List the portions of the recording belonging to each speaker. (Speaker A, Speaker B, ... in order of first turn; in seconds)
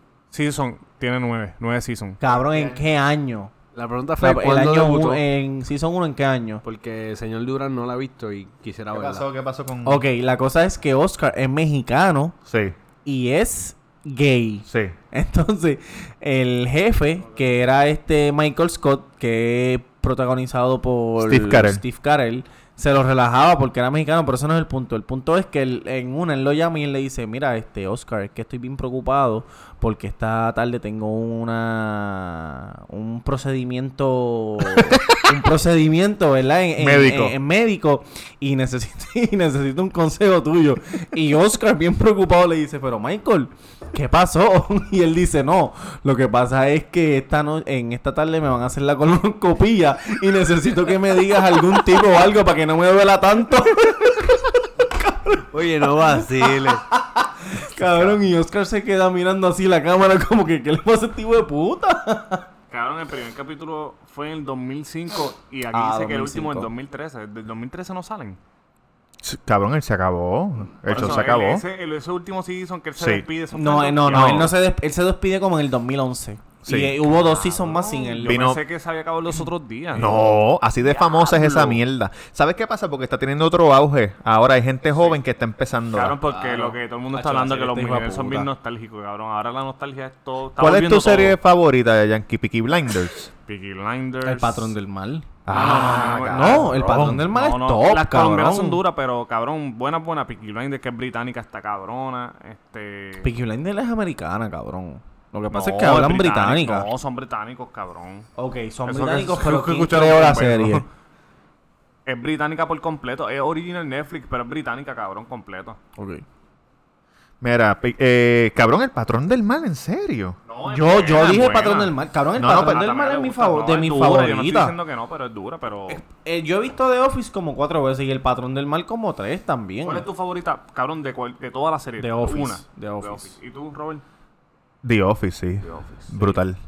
Speaker A: 0.3-2.2, 62.7-68.4, 70.9-74.5, 77.1-80.1, 81.0-81.8, 85.9-91.4, 93.5-94.7, 95.5-103.3, 105.5-108.3, 108.8-110.9, 112.1-115.8, 120.5-126.0, 129.8-134.0, 135.6-136.4
Speaker B: 2.2-3.5, 4.2-6.6, 9.8-12.4, 13.0-55.4, 56.4-62.5, 65.7-66.7, 73.5-78.4, 86.3-88.5, 94.2-95.3, 96.2-98.8, 103.2-106.9, 108.4-110.8, 116.0-116.2, 120.7-124.8, 125.9-130.1, 132.0-133.3
Speaker C: 2.3-2.9, 8.9-10.0, 12.5-12.8, 14.7-14.9, 21.2-21.8, 36.8-37.4, 69.2-71.6, 73.0-73.3, 74.1-74.5, 76.7-77.0, 78.2-78.6, 80.0-86.2, 90.6-93.3, 95.5-97.3, 117.4-120.4, 122.4-122.8, 134.8-136.6
Speaker D: 3.8-5.2, 6.6-9.3, 55.5-56.8